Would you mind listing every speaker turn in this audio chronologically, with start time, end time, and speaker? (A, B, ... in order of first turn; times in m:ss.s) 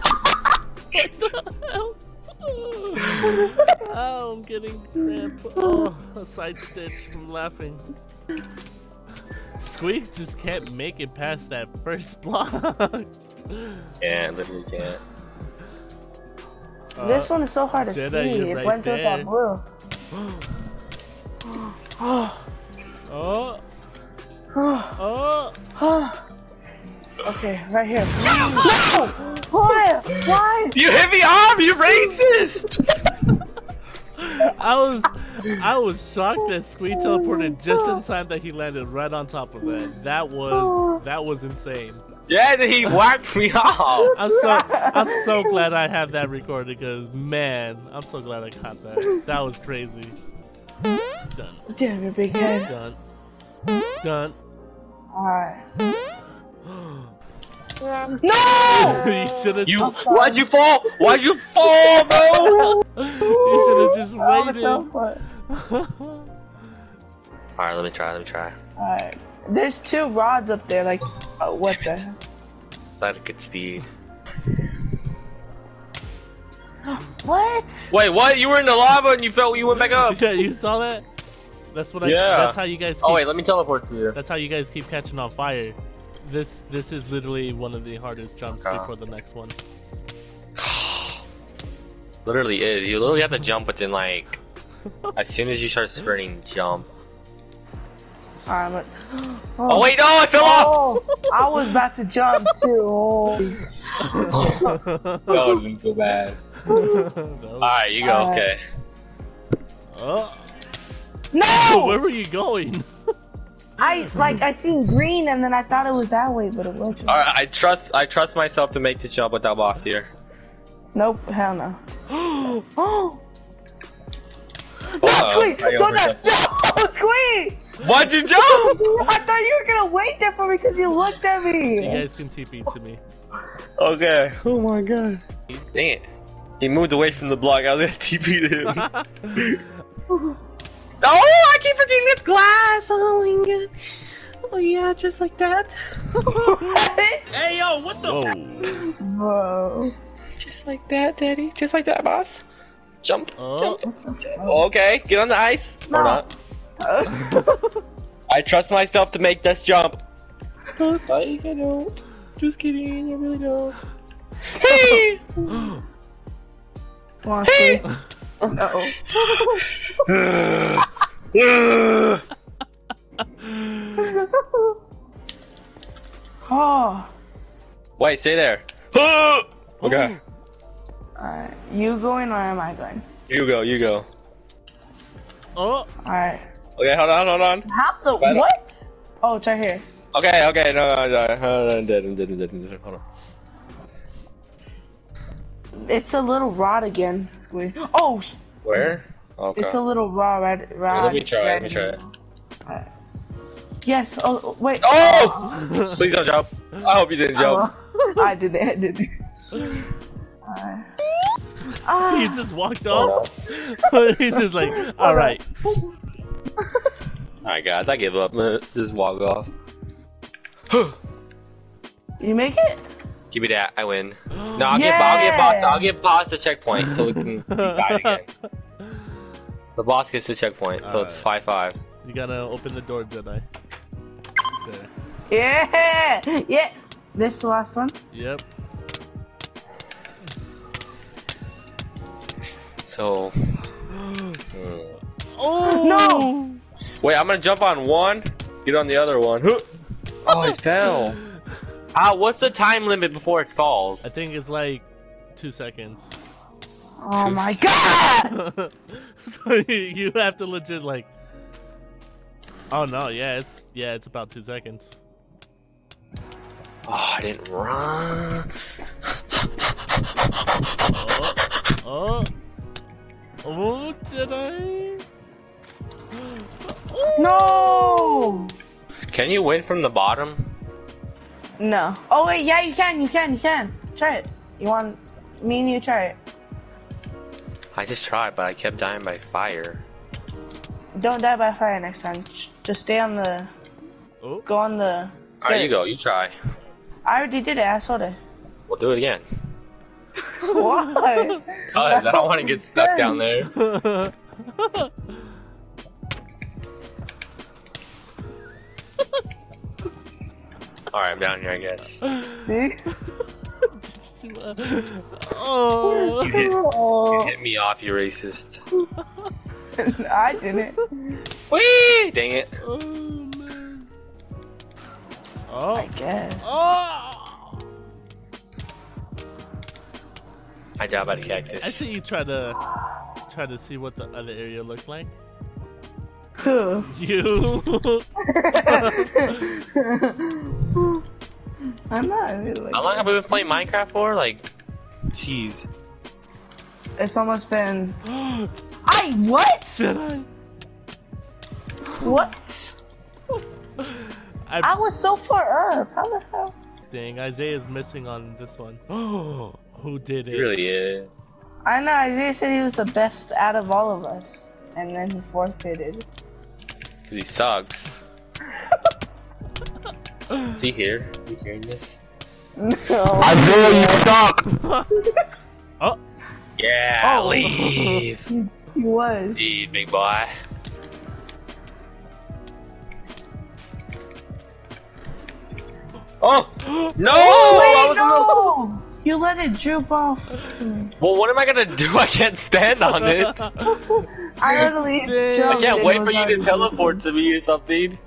0:00.9-0:07.9 A
0:09.6-0:13.9 A
0:14.0-0:15.0 B
0:17.0-0:19.3 A
0:17.0-0:19.6 C
0:20.2-0:20.4 A
0:22.0-0:22.4 C
0:23.1-0:23.6 A
0:24.6-0:25.0 C
0:25.0-0:25.6 A
0:25.8-0:26.2 C
0:27.2-0:30.8 C
0:28.2-0:29.4 A
0:28.3-0:29.1 B
0:30.1-0:32.8 B
0:31.8-0:32.2 C
0:34.2-0:42.0 A
0:37.0-0:38.0 C
0:40.5-0:41.0 C
0:42.3-0:44.2 B
0:44.2-0:45.6 C
0:44.2-0:50.2 A
0:51.3-0:51.7 A
0:51.7-0:52.7 C
0:52.4-0:53.0 A
0:54.0-0:54.4 A
0:55.1-0:55.6 C
0:56.6-0:57.1 A
0:58.2-0:59.1 C
0:58.7-1:00.0 A
0:59.6-1:02.8 B
0:59.8-1:00.5 C
1:02.5-1:05.2 C
1:02.6-1:04.9 A
1:05.5-1:06.3 A
1:07.6-1:08.6 B
1:08.8-1:12.2 C
1:13.0-1:13.9 B
1:16.9-1:17.9 C
1:17.9-1:20.2 B
1:20.0-1:21.0 A
1:21.7-1:23.3 A
1:22.0-1:24.2 B
1:24.1-1:29.6 A
1:28.5-1:28.9 B
1:30.6-1:31.2 B
1:32.2-1:34.4 B
1:35.1-1:36.9 B
1:38.5-1:43.6 C
1:39.7-1:40.8 B
1:44.0-1:45.5 A
1:44.2-1:44.7 C
1:44.3-1:44.6 B
1:45.3-1:46.4 B
1:46.6-1:47.8 A
1:46.7-1:47.1 C
1:47.6-1:48.6 B
1:48.0-1:48.5 C
1:49.9-1:50.5 A
1:51.3-1:52.0 C
1:51.5-1:52.9 A
1:53.8-1:57.2 C
1:57.1-2:00.1 B
2:00.9-2:01.8 C
2:02.1-2:02.6 A
2:02.8-2:03.2 C
2:05.0-2:07.6 C
2:05.0-2:06.4 B
2:07.8-2:08.8 B
2:08.4-2:12.0 C
2:11.7-2:13.0 A
2:13.8-2:15.2 B
2:15.7-2:16.1 B
2:16.6-2:19.6 B
2:18.7-2:19.1 A
2:21.0-2:23.7 B
2:24.4-2:25.8 B
2:26.2-2:26.8 A
2:26.2-2:27.3 C
2:27.3-2:28.2 B
2:28.0-2:28.9 A
2:28.7-2:29.9 C
2:30.4-2:32.4 B
2:33.0-2:36.3 B
2:33.4-2:33.8 A
2:33.8-2:34.6 C
2:35.9-2:36.2 C
2:36.8-2:37.4 C
2:37.1-2:37.5 A
2:38.3-2:40.0 B
2:40.8-2:43.8 B
2:44.6-2:45.5 B
2:45.5-2:45.8 A
2:47.2-2:47.9 C
2:47.4-2:47.8 B
2:48.5-2:49.6 C
2:49.4-2:52.2 B
2:53.4-2:54.0 A
2:54.0-2:54.8 C
2:56.4-2:57.1 C
2:58.0-3:00.2 B
2:59.8-3:00.2 A
3:01.2-3:03.0 C
3:03.3-3:04.1 B
3:05.6-3:05.9 A
3:06.0-3:06.4 C
3:06.8-3:07.7 B
3:07.7-3:09.8 C
3:08.2-3:08.5 B
3:10.1-3:13.0 B
3:15.8-3:18.9 C
3:18.6-3:19.8 B
3:19.5-3:22.1 C
3:20.9-3:22.0 B
3:23.8-3:25.6 C
3:24.8-3:27.7 B
3:25.5-3:26.0 A
3:27.4-3:29.8 C
3:30.5-3:30.9 C
3:31.8-3:32.4 C
3:32.1-3:35.5 A
3:32.9-3:33.3 B
3:34.7-3:35.4 C
3:37.4-3:39.5 B
3:40.7-3:41.0 B
3:42.2-3:42.8 C
3:43.3-3:48.2 B
3:44.3-3:44.9 A
3:44.7-3:45.9 C
3:46.8-3:48.2 A
3:49.8-3:51.8 B
3:50.8-3:51.3 A
3:52.0-3:53.5 A
3:54.6-3:54.9 A
3:55.3-3:57.9 C
3:58.1-3:58.4 A
4:02.9-4:03.6 B
4:04.5-4:05.0 B
4:05.3-4:06.6 A
4:05.6-4:06.3 C
4:07.0-4:09.7 B
4:10.2-4:11.2 B
4:10.3-4:11.2 A
4:11.9-4:14.1 B
4:14.0-4:16.1 A
4:17.0-4:18.4 C
4:17.2-4:17.6 B
4:18.3-4:21.1 A
4:22.7-4:25.0 A
4:26.9-4:28.5 B
4:30.9-4:32.3 A
4:33.4-4:35.0 A
4:36.1-4:38.5 A
4:37.2-4:38.5 C
4:39.1-4:40.4 B
4:41.6-4:46.2 C
4:47.8-4:49.8 B
4:51.0-4:53.5 C
4:54.2-4:54.5 A
4:54.5-4:55.8 C
4:55.4-4:56.3 B
4:57.1-4:58.2 C
4:58.7-4:59.2 B
5:00.4-5:03.2 C
5:00.5-5:01.4 A
5:01.7-5:03.5 B
5:03.5-5:05.1 A
5:10.9-5:12.0 B
5:12.0-5:12.5 A
5:12.4-5:12.8 C
5:13.6-5:16.3 A
5:15.8-5:17.3 C
5:16.2-5:16.6 B
5:17.1-5:18.6 B
5:19.8-5:20.9 C
5:21.5-5:22.6 B
5:22.6-5:23.9 A
5:25.5-5:27.6 A
5:25.8-5:26.5 C
5:30.8-5:32.0 B
5:31.6-5:32.6 A
5:33.3-5:35.1 A
5:36.4-5:36.9 C
5:36.8-5:39.5 A
5:38.3-5:41.0 C
5:41.9-5:43.2 C
5:42.7-5:44.5 B
5:45.1-5:45.7 B
5:47.0-5:48.0 C
5:48.1-5:48.5 A
5:48.9-5:49.8 C
5:49.8-5:50.3 A
5:52.0-5:52.8 C
5:53.8-5:54.8 A
5:54.6-5:56.6 C
5:56.9-6:00.6 A
6:00.3-6:01.3 B
6:01.6-6:06.1 C
6:07.1-6:08.0 B
6:10.5-6:12.0 B
6:12.6-6:14.1 C
6:13.2-6:14.5 B
6:14.6-6:14.9 A
6:16.6-6:18.2 B
6:17.0-6:18.1 A
6:18.3-6:19.5 C
6:19.4-6:20.3 B
6:26.2-6:28.5 B
6:26.6-6:27.0 A
6:27.1-6:30.9 C
6:31.0-6:33.4 B
6:32.9-6:36.0 A
6:33.7-6:37.0 C
6:35.5-6:38.0 B